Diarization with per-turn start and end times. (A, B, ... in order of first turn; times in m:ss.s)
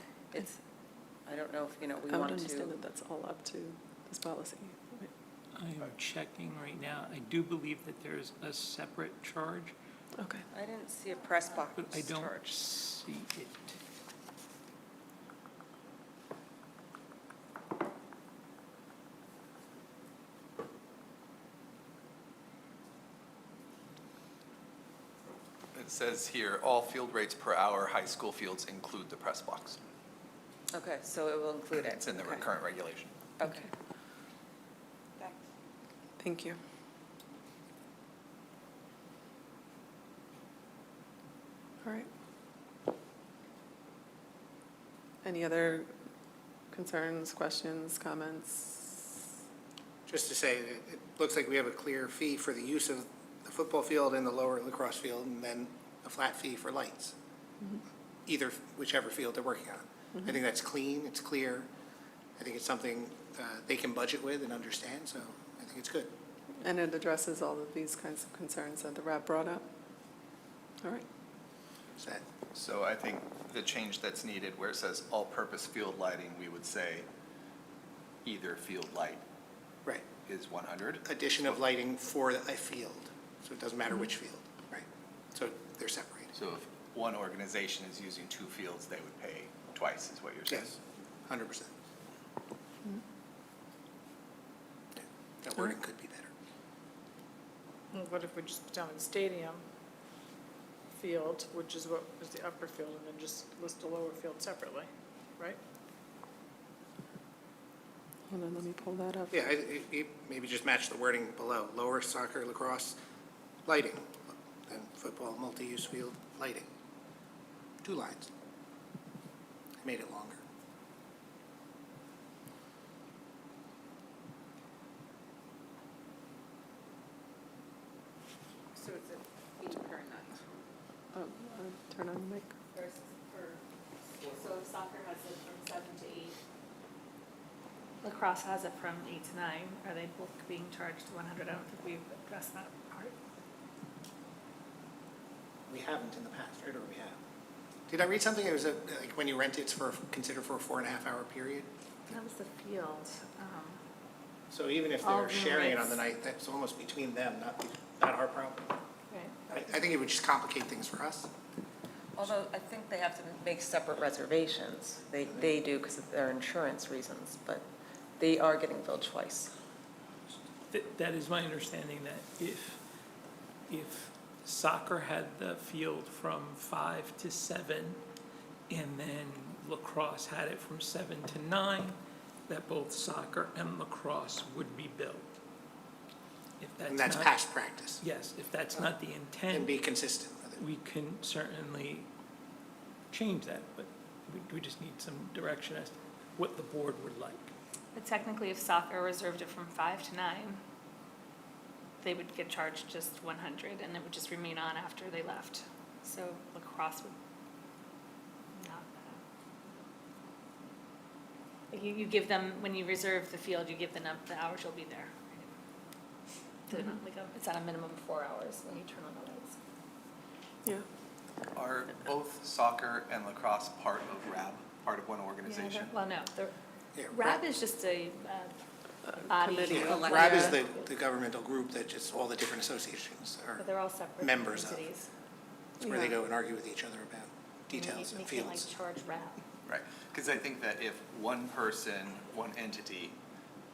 0:00.3-0:00.6 A
0:01.3-0:02.8 A
0:02.1-0:05.1 B
0:05.6-0:09.7 C
0:10.5-0:12.5 A
0:11.7-0:13.8 C
0:25.7-0:29.8 D
0:30.7-0:32.5 A
0:31.7-0:33.1 D
0:33.4-0:33.7 A
0:36.2-0:36.6 B
0:41.8-0:42.1 B
0:45.2-0:45.9 B
0:46.7-0:48.9 B
0:50.1-0:57.1 E
0:58.3-1:01.7 E
1:02.4-1:06.1 E
1:06.6-1:09.7 B
1:12.0-1:12.2 E
1:12.5-1:17.1 D
1:18.2-1:19.2 D
1:20.2-1:21.6 D
1:21.0-1:26.3 E
1:26.3-1:30.8 D
1:31.3-1:31.7 E
1:35.0-1:36.3 E
1:37.9-1:39.6 F
1:41.0-1:45.6 F
1:48.3-1:49.5 B
1:49.3-1:53.0 E
1:53.7-1:56.7 E
1:57.8-1:58.3 E
1:59.8-2:00.4 E
2:11.1-2:12.5 B
2:12.7-2:13.6 G
2:14.2-2:16.4 G
2:18.0-2:23.1 G
2:25.7-2:27.2 E
2:27.9-2:31.7 E
2:32.1-2:33.8 G
2:34.5-2:38.8 E
2:35.0-2:36.0 G
2:39.5-2:41.3 E
2:42.2-2:47.7 A
2:48.2-2:49.5 A
2:50.7-2:52.8 C
2:53.7-2:58.0 C
2:58.7-3:05.3 C
3:06.6-3:07.5 C
3:06.8-3:08.0 E
3:08.0-3:09.8 C
3:09.5-3:10.6 E
3:10.6-3:12.1 C
3:13.1-3:17.5 C
3:18.0-3:20.6 G
3:22.0-3:27.1 G
3:28.6-3:29.2 G
3:31.7-3:35.5 G
3:36.7-3:39.6 G
3:41.6-3:46.0 D
3:45.5-3:46.5 G
3:47.0-3:47.4 E
3:47.1-3:48.5 G
3:49.1-3:50.4 B
3:49.2-3:50.9 G
3:49.7-3:54.9 E
3:53.6-3:55.1 G
3:55.8-3:58.7 E
3:55.8-3:56.1 B
3:57.7-3:59.4 G
3:59.6-4:03.2 D